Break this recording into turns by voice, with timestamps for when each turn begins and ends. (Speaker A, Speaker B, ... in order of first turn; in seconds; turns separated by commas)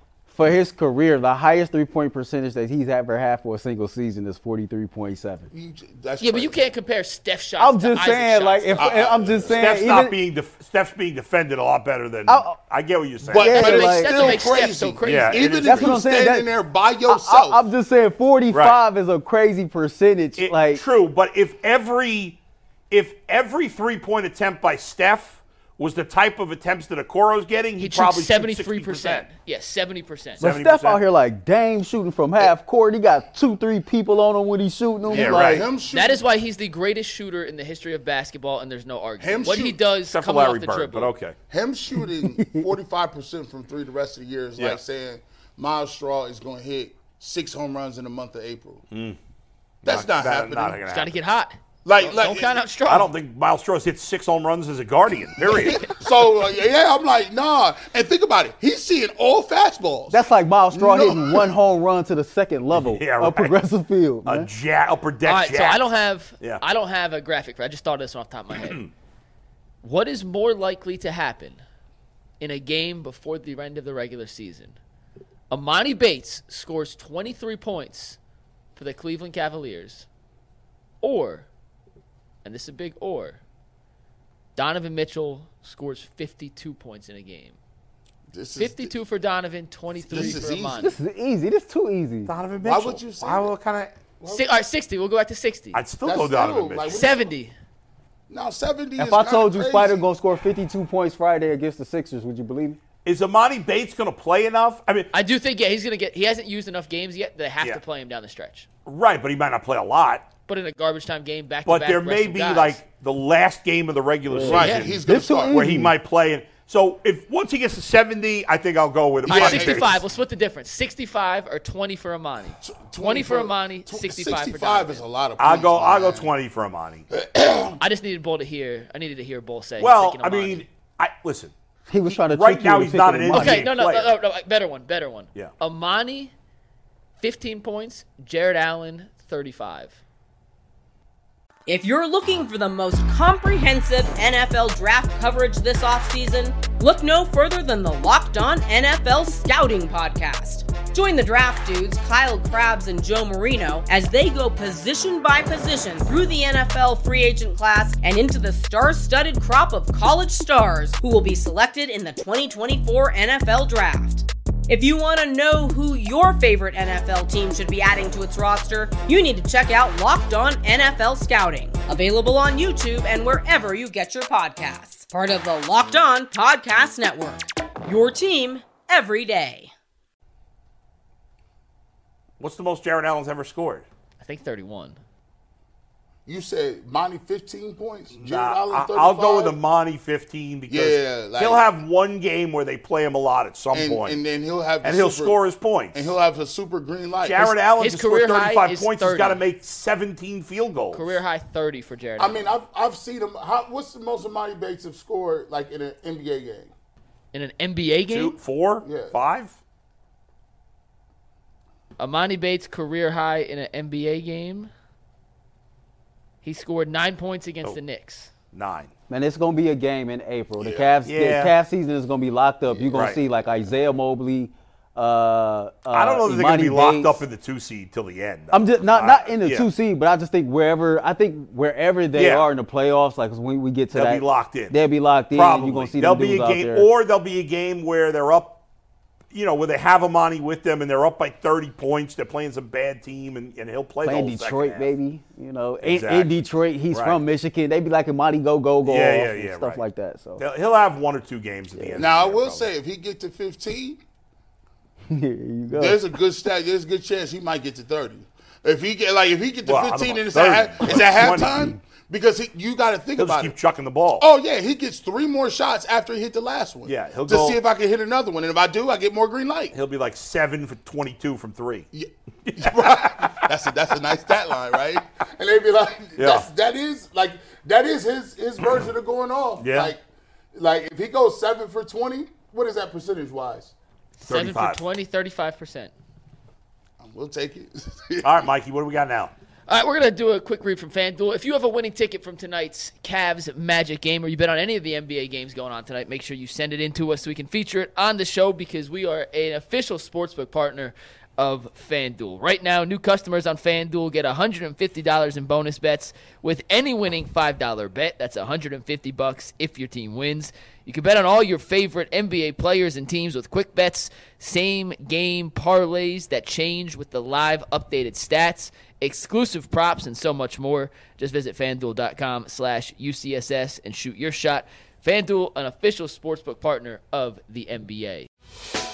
Speaker A: 0.3-5.5, Speaker B: 5.5-6.7, Speaker C: 6.2-8.9, Speaker A: 7.6-10.2, Speaker B: 8.8-9.6, Speaker D: 9.5-13.6, Speaker A: 12.3-12.6, Speaker C: 13.2-15.4, Speaker A: 13.3-14.4, Speaker B: 13.3-17.6, Speaker D: 15.0-16.0, Speaker A: 15.6-16.5, Speaker A: 17.1-20.8, Speaker D: 18.5-18.8, Speaker D: 20.4-22.4, Speaker D: 22.9-29.3, Speaker C: 27.8-30.4, Speaker D: 30.4-31.0, Speaker A: 30.4-35.7, Speaker B: 35.1-36.2, Speaker D: 35.1-35.7, Speaker C: 35.9-41.1, Speaker B: 39.2-39.8, Speaker D: 40.1-41.4, Speaker B: 41.5-48.8, Speaker A: 42.2-42.6, Speaker D: 48.9-49.2, Speaker D: 49.8-51.2, Speaker B: 49.9-50.8, Speaker C: 50.9-53.1, Speaker B: 51.8-52.6, Speaker D: 52.9-56.0, Speaker B: 55.4-61.5, Speaker A: 60.1-64.5, Speaker D: 62.7-63.6, Speaker D: 64.2-65.8, Speaker C: 65.2-68.8, Speaker D: 68.5-68.9, Speaker C: 69.8-71.6, Speaker C: 72.4-74.8, Speaker C: 75.5-78.2, Speaker C: 78.7-80.1, Speaker C: 81.0-81.5, Speaker C: 82.4-83.4, Speaker C: 84.5-87.6, Speaker B: 88.3-88.9, Speaker C: 88.6-91.0, Speaker B: 90.0-90.9, Speaker A: 90.2-92.3, Speaker D: 92.3-94.0, Speaker B: 92.6-93.5, Speaker B: 94.2-94.6, Speaker C: 94.3-95.8, Speaker D: 95.7-97.0, Speaker B: 96.0-97.3, Speaker C: 96.9-97.5, Speaker B: 98.3-100.1, Speaker A: 99.0-102.8, Speaker D: 103.0-105.1, Speaker C: 105.1-108.7, Speaker D: 108.8-110.2, Speaker C: 110.5-112.8, Speaker D: 111.7-120.0, Speaker A: 114.3-115.9, Speaker B: 114.4-115.6, Speaker B: 119.2-120.0, Speaker C: 119.3-125.0, Speaker B: 122.6-126.3, Speaker D: 125.4-127.1, Speaker B: 127.1-127.8, Speaker C: 127.8-130.6, Speaker D: 129.8-131.5, Speaker A: 131.9-133.7, Speaker D: 132.1-134.1, Speaker C: 133.3-136.3, Speaker C: 137.2-140.0, Speaker E: 141.7-179.7, Speaker D: 182.4-183.8, Speaker C: 184.2-185.0, Speaker B: 186.2-189.5, Speaker D: 188.1-194.2, Speaker B: 190.7-191.6, Speaker B: 193.7-195.4, Speaker D: 194.8-196.1, Speaker B: 195.9-197.6, Speaker D: 197.2-201.2, Speaker C: 197.8-199.4, Speaker C: 200.9-202.5, Speaker B: 202.2-206.7, Speaker C: 207.3-208.3, Speaker D: 208.1-209.6, Speaker B: 208.8-209.1, Speaker C: 212.0-214.7, Speaker C: 216.4-218.3, Speaker D: 218.5-218.9, Speaker A: 219.1-227.2, Speaker B: 220.6-220.9, Speaker D: 221.0-221.5, Speaker B: 222.7-223.0, Speaker D: 222.9-223.2, Speaker D: 225.9-229.7, Speaker A: 228.5-236.9, Speaker D: 232.1-232.5, Speaker D: 233.9-234.8, Speaker D: 235.3-238.6, Speaker D: 239.3-244.9, Speaker A: 244.0-250.4, Speaker D: 245.8-246.3, Speaker D: 246.9-247.2, Speaker D: 248.8-249.8, Speaker D: 250.4-252.7, Speaker A: 251.8-252.0, Speaker B: 252.0-254.0, Speaker A: 255.1-256.1, Speaker B: 255.7-263.5, Speaker D: 259.6-261.6, Speaker D: 263.2-264.3, Speaker B: 264.2-269.7, Speaker D: 266.8-267.6, Speaker D: 269.7-271.9, Speaker B: 271.9-280.0, Speaker D: 272.5-273.4, Speaker D: 276.2-276.5, Speaker D: 278.6-278.9, Speaker D: 279.6-279.9, Speaker B: 280.5-283.7, Speaker C: 284.2-285.9, Speaker D: 284.3-284.8, Speaker B: 287.0-288.3, Speaker D: 288.2-289.3, Speaker C: 289.7-328.3